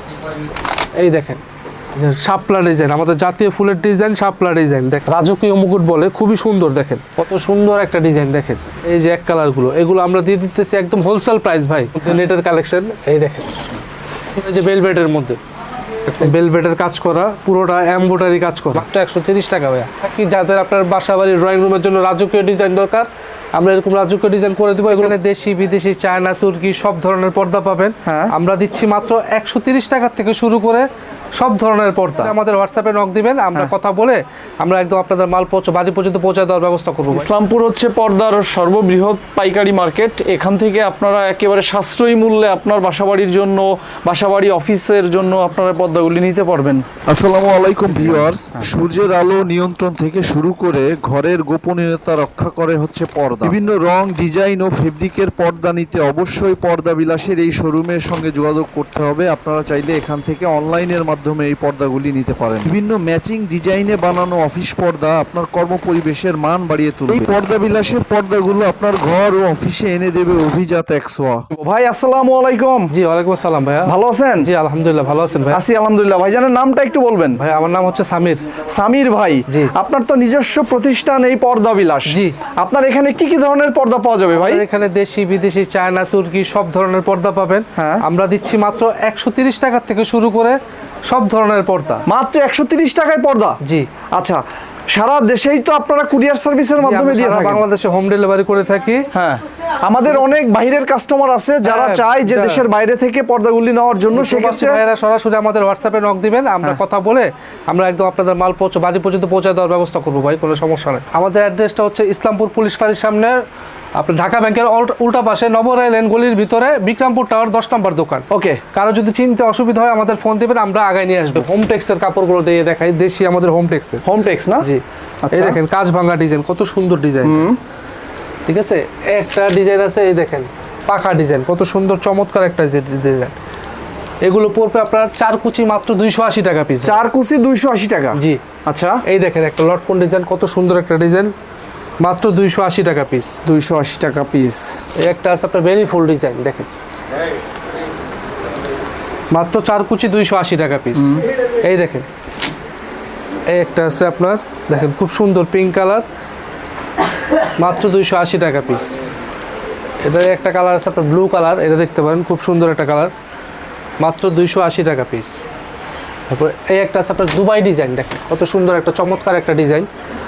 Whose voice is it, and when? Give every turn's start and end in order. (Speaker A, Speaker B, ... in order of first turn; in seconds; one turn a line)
Speaker A: 0.9-1.4
Speaker A: 1.9-13.6
Speaker A: 14.3-15.4
Speaker A: 16.1-37.3
Speaker B: 28.1-28.3
Speaker B: 37.1-46.9
Speaker C: 47.1-71.5
Speaker B: 47.9-48.7
Speaker B: 71.5-72.9
Speaker A: 72.9-75.6
Speaker B: 73.8-74.5
Speaker B: 75.5-77.4
Speaker A: 77.3-78.4
Speaker B: 78.7-84.6
Speaker A: 79.5-79.7
Speaker A: 82.1-82.4
Speaker A: 84.3-92.0
Speaker B: 87.8-88.0
Speaker B: 92.1-93.6
Speaker A: 93.6-93.9
Speaker B: 94.1-97.6
Speaker A: 96.8-99.1
Speaker B: 99.1-104.8
Speaker A: 101.6-102.6
Speaker A: 104.1-113.4
Speaker A: 114.0-124.0
Speaker B: 118.3-118.6
Speaker B: 124.0-124.7
Speaker A: 124.6-127.5
Speaker B: 125.2-125.6
Speaker B: 127.2-127.6
Speaker A: 128.5-133.3
Speaker A: 134.2-137.0
Speaker B: 136.8-139.0
Speaker A: 138.1-138.4
Speaker A: 139.0-141.3
Speaker A: 142.0-143.4
Speaker B: 143.4-144.8
Speaker A: 145.0-146.7
Speaker A: 149.3-152.1
Speaker B: 151.0-151.2
Speaker A: 153.5-156.0
Speaker A: 157.6-159.0
Speaker A: 160.0-163.1
Speaker A: 164.0-165.4
Speaker A: 166.3-169.9